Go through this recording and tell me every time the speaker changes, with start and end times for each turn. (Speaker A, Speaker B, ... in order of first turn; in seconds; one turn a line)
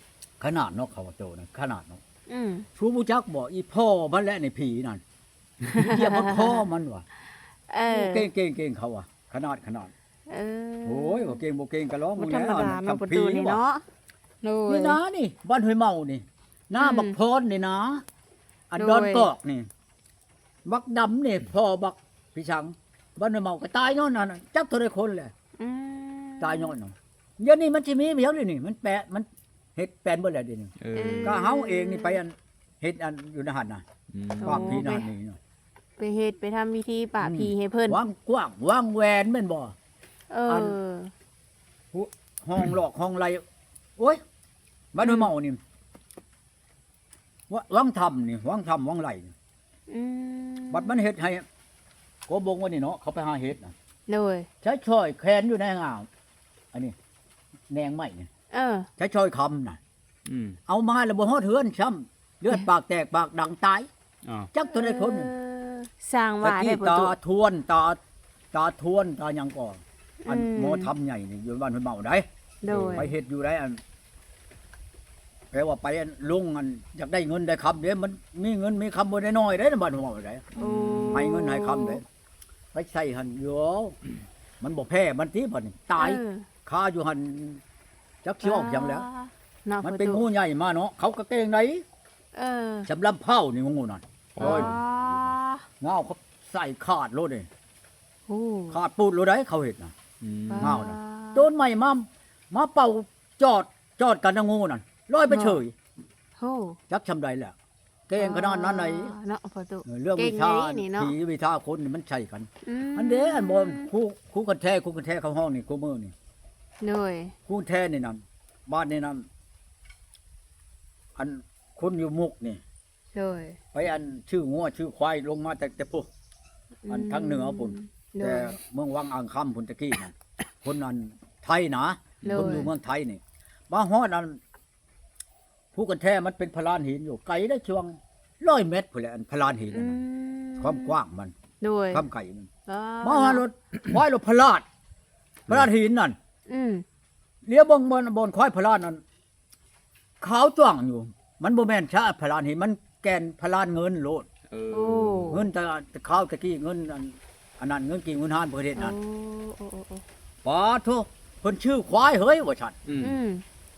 Speaker A: 0.4-2.0
Speaker B: 2.3-2.7
Speaker A: 2.8-5.0
Speaker B: 5.7-6.6
Speaker A: 5.8-7.0
Speaker B: 7.7-8.2
Speaker A: 7.9-9.9
Speaker B: 10.3-11.4
Speaker A: 10.8-13.6
Speaker B: 12.2-13.8
Speaker B: 14.4-15.0
Speaker A: 14.7-18.0
Speaker B: 16.8-17.1
Speaker A: 18.7-19.7
Speaker B: 18.8-19.3
Speaker A: 20.6-25.3
Speaker B: 25.6-26.7
Speaker A: 26.4-30.7
Speaker C: 30.8-31.4
Speaker B: 30.9-32.2
Speaker A: 31.2-33.8
Speaker C: 34.1-34.8
Speaker B: 34.4-35.1
Speaker A: 34.4-35.4
Speaker B: 36.0-38.0
Speaker A: 37.2-39.7
Speaker B: 40.3-41.1
Speaker A: 40.5-40.8
Speaker A: 41.9-43.4
Speaker A: 44.9-45.6
Speaker B: 45.0-45.3
Speaker A: 47.5-49.3
Speaker B: 49.9-51.0
Speaker A: 50.7-51.4
Speaker A: 52.3-53.7
Speaker B: 54.1-54.5
Speaker A: 54.6-56.1
Speaker A: 57.7-58.3
Speaker B: 58.5-58.9
Speaker A: 59.0-59.8
Speaker C: 60.2-60.6
Speaker A: 60.7-63.9
Speaker C: 64.2-64.5
Speaker A: 64.5-65.3
Speaker B: 64.7-67.1
Speaker A: 66.4-68.0
Speaker A: 68.5-72.2
Speaker B: 70.2-70.9
Speaker B: 72.6-73.1
Speaker C: 72.7-73.1
Speaker A: 72.9-73.8
Speaker A: 75.5-80.5
Speaker B: 80.5-82.0
Speaker C: 80.6-81.3
Speaker A: 81.1-82.0
Speaker A: 82.7-84.0
Speaker A: 84.6-87.6
Speaker B: 86.0-86.5
Speaker A: 88.2-89.1
Speaker B: 88.4-90.2
Speaker A: 89.8-91.8
Speaker B: 92.3-92.9
Speaker A: 92.9-97.5
Speaker C: 94.4-94.8
Speaker B: 94.4-95.6
Speaker B: 98.3-98.8
Speaker A: 98.7-99.9
Speaker C: 100.2-100.8
Speaker B: 100.5-101.5
Speaker A: 100.6-105.7
Speaker B: 105.3-105.6
Speaker B: 106.4-106.8
Speaker A: 106.9-107.5
Speaker A: 108.1-109.1
Speaker B: 108.2-111.1
Speaker A: 109.9-116.1
Speaker B: 112.6-113.9
Speaker B: 116.8-117.3
Speaker A: 117.5-119.2
Speaker A: 121.2-122.6
Speaker B: 123.1-123.6
Speaker A: 123.7-126.1
Speaker B: 126.9-128.6
Speaker A: 126.9-134.4
Speaker C: 132.2-132.5
Speaker B: 132.2-132.7
Speaker A: 135.7-140.0
Speaker B: 139.7-141.0
Speaker A: 140.6-141.3
Speaker B: 141.6-142.0
Speaker A: 141.9-142.5
Speaker B: 142.7-143.4
Speaker A: 143.0-144.6
Speaker A: 145.5-146.2
Speaker B: 146.5-146.8
Speaker A: 147.5-149.0
Speaker A: 150.2-154.3
Speaker C: 154.5-155.4
Speaker B: 154.7-155.5
Speaker A: 155.3-159.0
Speaker B: 158.8-160.0
Speaker A: 160.4-162.8
Speaker C: 162.9-163.2
Speaker B: 163.0-163.4